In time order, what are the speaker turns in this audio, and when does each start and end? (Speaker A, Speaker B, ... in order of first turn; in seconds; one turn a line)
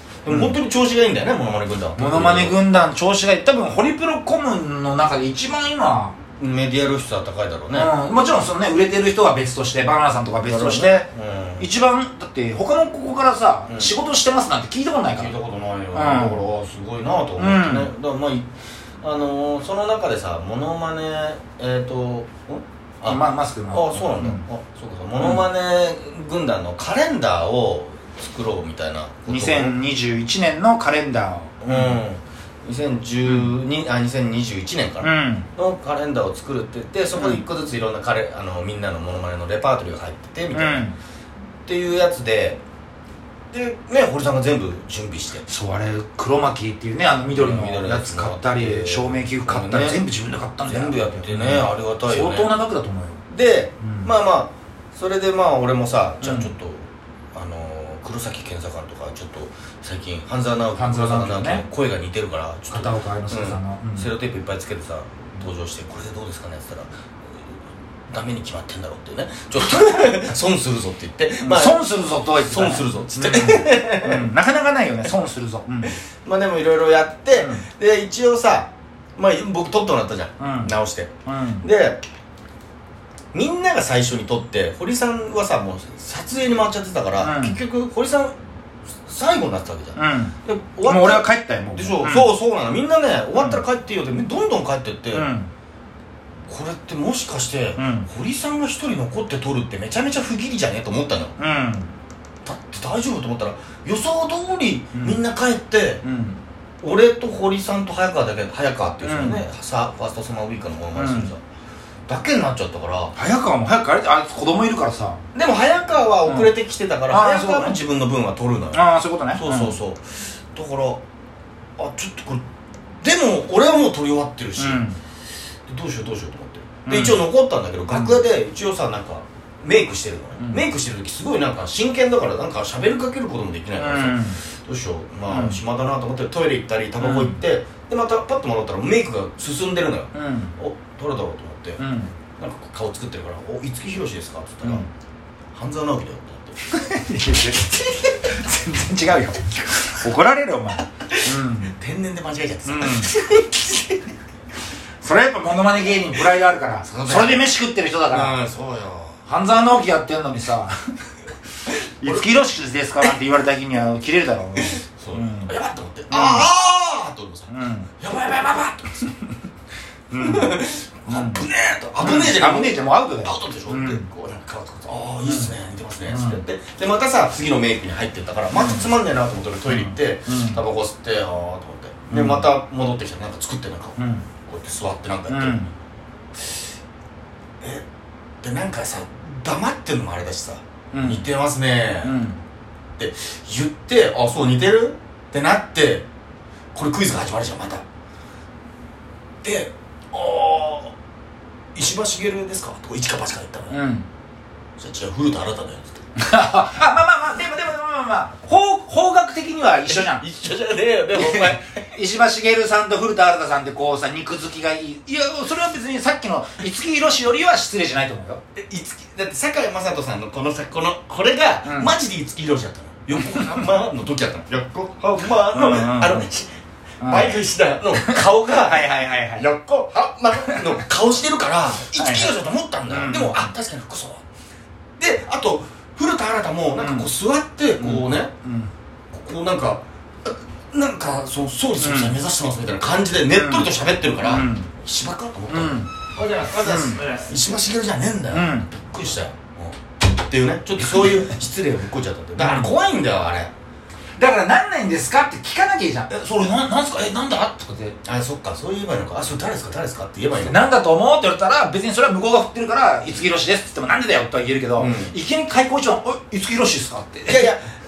Speaker A: 0.2-2.6
Speaker B: 0.3-0.6
Speaker B: 2.0-6.2
Speaker A: 6.4-7.9
Speaker B: 7.7-11.1
Speaker A: 10.4-11.7
Speaker B: 11.6-15.3
Speaker A: 13.7-13.9
Speaker A: 15.1-18.5
Speaker B: 15.9-16.4
Speaker B: 17.4-17.9
Speaker A: 19.0-29.8
Speaker B: 23.1-24.4
Speaker B: 29.3-32.0
Speaker A: 31.6-40.9
Speaker B: 33.2-33.5
Speaker B: 35.0-35.5
Speaker B: 37.1-37.4
Speaker B: 40.5-41.0
Speaker A: 41.6-42.6
Speaker A: 43.5-45.5
Speaker B: 45.5-53.2
Speaker A: 47.3-50.0
Speaker A: 50.6-52.5
Speaker A: 53.3-67.5
Speaker B: 53.8-54.1
Speaker B: 56.2-56.5
Speaker B: 60.8-61.6
Speaker B: 62.7-64.1
Speaker A: 68.1-74.3
Speaker B: 69.7-70.2
Speaker B: 71.4-76.0
Speaker A: 75.9-82.0
Speaker B: 77.3-77.7
Speaker B: 80.4-80.7
Speaker B: 81.2-81.6
Speaker A: 83.3-88.3
Speaker B: 87.2-87.6
Speaker A: 89.0-95.3
Speaker B: 90.0-90.3
Speaker B: 90.8-92.3
Speaker B: 93.4-93.6
Speaker B: 95.1-95.5
Speaker A: 96.5-101.3
Speaker B: 97.8-98.1
Speaker B: 101.4-101.9
Speaker A: 102.4-106.0
Speaker B: 104.9-105.2
Speaker B: 106.0-106.4
Speaker A: 106.8-111.4
Speaker B: 109.0-109.4
Speaker B: 111.0-111.3
Speaker A: 112.1-113.1
Speaker B: 113.1-115.2
Speaker A: 115.3-121.0
Speaker B: 116.2-116.5
Speaker B: 117.1-117.8
Speaker B: 118.7-119.8
Speaker A: 121.8-122.4
Speaker A: 123.0-124.8
Speaker B: 124.6-125.0
Speaker A: 125.7-141.8
Speaker B: 126.8-127.2
Speaker B: 127.9-128.2
Speaker B: 133.8-134.4
Speaker B: 135.3-135.6
Speaker B: 137.0-137.4
Speaker B: 140.1-140.5
Speaker B: 141.8-142.1
Speaker A: 142.4-144.8
Speaker B: 144.6-144.9
Speaker A: 145.5-146.8
Speaker B: 146.7-151.7
Speaker A: 151.1-154.0
Speaker B: 152.6-153.1
Speaker B: 155.0-158.4
Speaker A: 156.8-157.5
Speaker A: 158.1-159.2
Speaker B: 159.2-160.8
Speaker B: 162.0-165.5
Speaker A: 164.6-168.9
Speaker B: 166.1-166.5
Speaker B: 167.5-167.9
Speaker B: 170.1-171.4
Speaker A: 170.2-185.6
Speaker B: 172.0-174.0
Speaker B: 175.2-175.5
Speaker B: 176.1-176.4
Speaker B: 178.5-178.9
Speaker B: 179.7-180.6
Speaker B: 182.1-182.5
Speaker B: 184.0-184.2
Speaker B: 185.3-185.7
Speaker A: 188.4-192.2
Speaker B: 190.9-191.3
Speaker B: 192.0-192.4
Speaker A: 193.0-196.1
Speaker A: 196.7-197.8
Speaker A: 199.4-200.9
Speaker A: 201.7-203.8
Speaker B: 203.7-204.1
Speaker A: 204.8-206.0
Speaker B: 206.2-210.2
Speaker A: 209.8-211.8
Speaker B: 211.1-218.4
Speaker A: 218.5-234.2
Speaker B: 221.6-221.9
Speaker B: 225.5-226.3
Speaker B: 227.0-227.4
Speaker B: 228.0-229.4
Speaker B: 230.4-230.7
Speaker B: 231.9-232.3
Speaker B: 232.9-233.5
Speaker A: 235.0-238.3
Speaker B: 236.8-237.1
Speaker B: 237.8-238.7
Speaker A: 239.1-239.8
Speaker A: 240.7-253.5
Speaker B: 241.8-242.2
Speaker B: 243.3-243.7
Speaker B: 244.2-244.7
Speaker B: 245.5-245.9
Speaker B: 246.6-247.1
Speaker B: 248.3-248.7
Speaker B: 252.4-252.7
Speaker B: 254.2-258.0
Speaker A: 258.0-260.7
Speaker B: 260.4-267.5
Speaker A: 264.8-265.1
Speaker A: 267.2-267.7